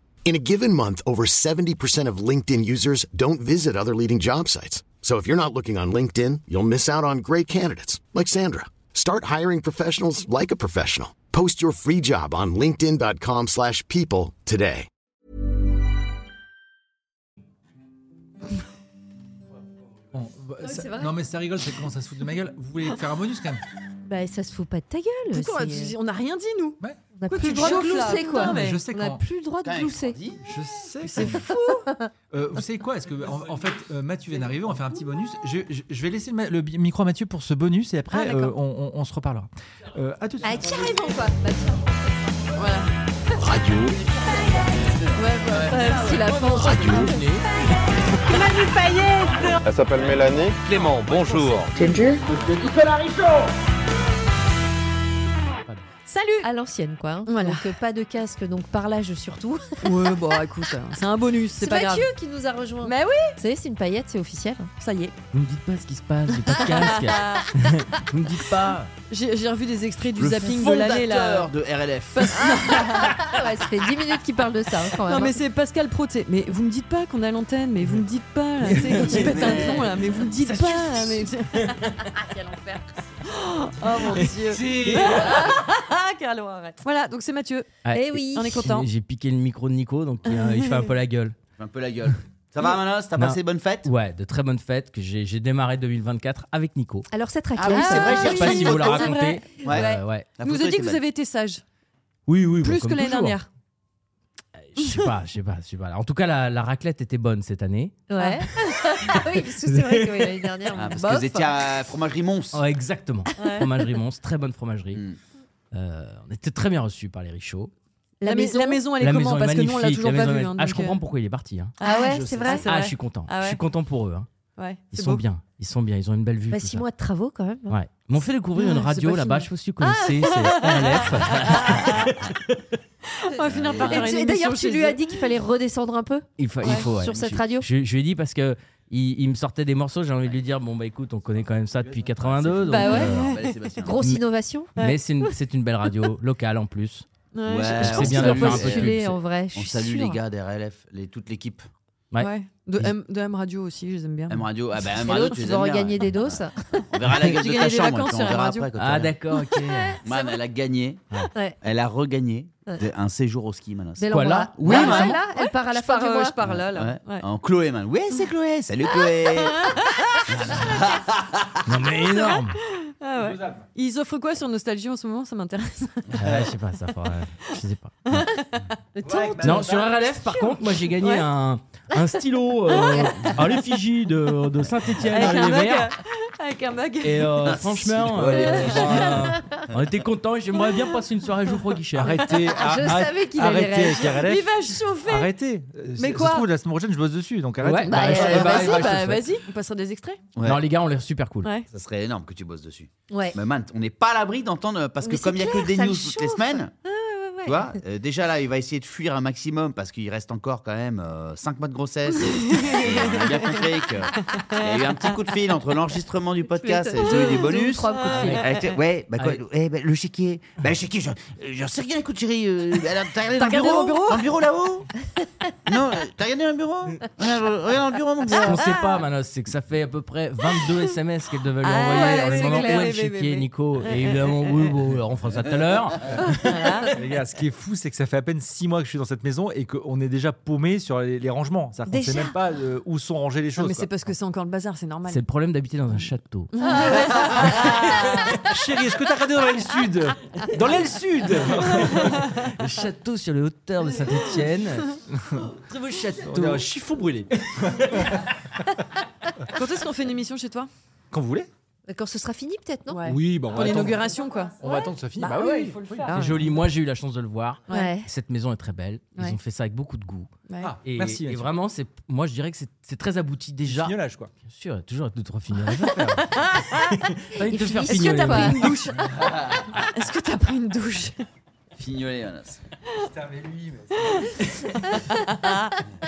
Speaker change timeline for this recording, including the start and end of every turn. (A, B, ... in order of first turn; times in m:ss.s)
0:00.2-0:14.9 A
0:20.1-0:23.6 B
0:20.7-0:21.2 C
0:24.0-0:26.0 C
0:25.3-0:28.8 D
0:26.8-0:29.2 B
0:27.1-0:30.2 C
0:29.6-0:30.4 E
0:30.4-0:31.5 B
0:31.1-0:31.9 D
0:31.7-0:32.1 C
0:32.3-0:40.7 B
0:38.1-0:38.5 D
0:40.4-0:41.9 C
0:42.5-0:42.9 D
0:43.4-0:44.0 A
0:45.2-0:46.5 D
0:45.7-0:47.2 C
0:46.4-0:47.7 F
0:46.5-0:47.2 A
0:48.3-0:49.6 D
0:49.6-0:53.1 G
0:50.6-0:51.7 E
0:51.1-0:51.6 D
0:56.1-0:56.5 D
0:56.4-0:59.8 C
0:57.2-0:57.7 D
0:59.8-1:02.1 D
1:01.6-1:04.7 C
1:02.8-1:03.4 D
1:04.8-1:05.2 D
1:05.3-1:08.9 F
1:06.5-1:07.4 D
1:09.1-1:11.6 D
1:10.1-1:12.8 E
1:12.1-1:13.2 D
1:12.9-1:15.4 C
1:15.0-1:22.7 D
1:18.6-1:19.0 B
1:18.7-1:19.4 F
1:19.0-1:21.1 E
1:23.3-1:27.8 D
1:24.5-1:25.4 B
1:24.8-1:25.1 F
1:27.8-1:31.4 F
1:27.9-1:28.6 C
1:28.3-1:28.9 D
1:30.3-1:30.7 D
1:31.6-1:33.9 E
1:33.2-1:37.1 F
1:37.1-1:38.8 C
1:37.5-1:41.0 E
1:37.7-1:41.6 D
1:38.0-1:40.3 F
1:42.3-1:43.4 F
1:42.6-1:43.5 D
1:44.6-1:48.0 F
1:48.1-1:51.7 C
1:49.6-1:50.5 F
1:50.7-1:51.0 D
1:50.7-1:52.6 E
1:52.5-1:55.0 F
1:53.4-1:53.7 D
1:55.7-1:57.7 F
1:58.2-1:58.8 C
1:58.2-2:01.0 D
1:59.0-2:01.7 F
2:01.8-2:03.6 D
2:01.8-2:02.6 C
2:02.0-2:02.6 E
2:02.6-2:04.3 F
2:04.6-2:05.2 D
2:04.9-2:06.8 F
2:06.5-2:07.8 C
2:07.7-2:12.5 F
2:08.6-2:08.9 D
2:08.9-2:09.5 C
2:10.2-2:12.0 D
2:13.2-2:15.1 D
2:13.4-2:14.2 E
2:13.8-2:16.2 C
2:16.4-2:23.3 F
2:16.6-2:16.9 D
2:16.9-2:17.7 C
2:22.2-2:24.1 E
2:22.7-2:23.8 D
2:23.8-2:24.7 C
2:24.0-2:27.1 F
2:27.3-2:28.7 D
2:27.4-2:28.9 E
2:27.7-2:29.2 F
2:28.2-2:30.2 C
2:29.5-2:31.7 E
2:32.1-2:32.9 F
2:32.2-2:34.5 D
2:34.3-2:39.2 E
2:34.9-2:36.9 C
2:37.0-2:38.7 D
2:38.8-2:40.0 F
2:39.6-2:40.4 C
2:40.0-2:41.1 E
2:41.3-2:41.6 C
2:41.6-2:45.2 E
2:44.0-2:46.4 C
2:44.1-2:45.2 F
2:44.6-2:47.2 D
2:46.4-2:49.7 E
2:49.0-2:50.7 D
2:50.3-2:51.5 E
2:51.6-2:52.6 F
2:52.9-2:56.0 D
2:53.1-2:53.7 B
2:56.1-2:58.3 F
2:56.2-2:56.5 E
2:58.1-2:58.8 D
2:59.0-2:59.6 C
2:59.0-2:59.9 B
2:59.3-2:59.6 E
2:59.4-3:05.9 F
3:01.0-3:01.2 D
3:02.7-3:03.1 D
3:05.0-3:07.5 D
3:07.0-3:12.2 F
3:07.4-3:09.1 E
3:08.3-3:09.2 D
3:09.1-3:09.6 C
3:11.9-3:18.9 B
3:12.4-3:14.2 C
3:14.0-3:15.4 D
3:16.0-3:16.5 D
3:17.6-3:19.2 F
3:17.9-3:18.8 C
3:18.0-3:20.2 D
3:18.2-3:18.9 E
3:20.3-3:20.6 E
3:20.4-3:21.5 F
3:21.4-3:21.7 D
3:21.7-3:26.7 E
3:23.1-3:23.4 C
3:25.0-3:27.6 C
3:27.4-3:44.9 E
3:32.3-3:33.6 D
3:34.3-3:35.2 D
3:36.6-3:38.4 C
3:37.0-3:38.8 D
3:38.1-3:38.5 F
3:43.4-3:44.2 D
3:45.7-3:48.7 E
3:48.4-3:56.7 F
3:51.6-3:54.7 D
3:51.9-3:52.9 C
3:56.3-3:56.9 D
3:56.9-4:03.9 B
4:01.9-4:02.3 C
4:03.6-4:05.2 D
4:05.1-4:08.3 F
4:05.9-4:08.0 D
4:07.8-4:12.2 B
4:11.6-4:15.0 F
4:15.5-4:16.6 F
4:16.2-4:18.3 B
4:19.5-4:20.7 D
4:21.1-4:21.5 B
4:21.8-4:23.1 C
4:22.9-4:24.6 D
4:23.0-4:26.1 B
4:25.2-4:26.4 C
4:26.1-4:30.3 F
4:27.7-4:27.9 D
4:27.7-4:28.1 C
4:30.5-4:30.8 D
4:30.6-4:31.4 B
4:30.8-4:38.8 F
4:33.6-4:34.3 B
4:37.4-4:38.6 C
4:37.9-4:39.1 D
4:39.0-4:39.7 E
4:39.7-4:41.2 D
4:41.7-4:42.6 E
4:43.0-4:45.0 B
4:44.9-4:45.7 D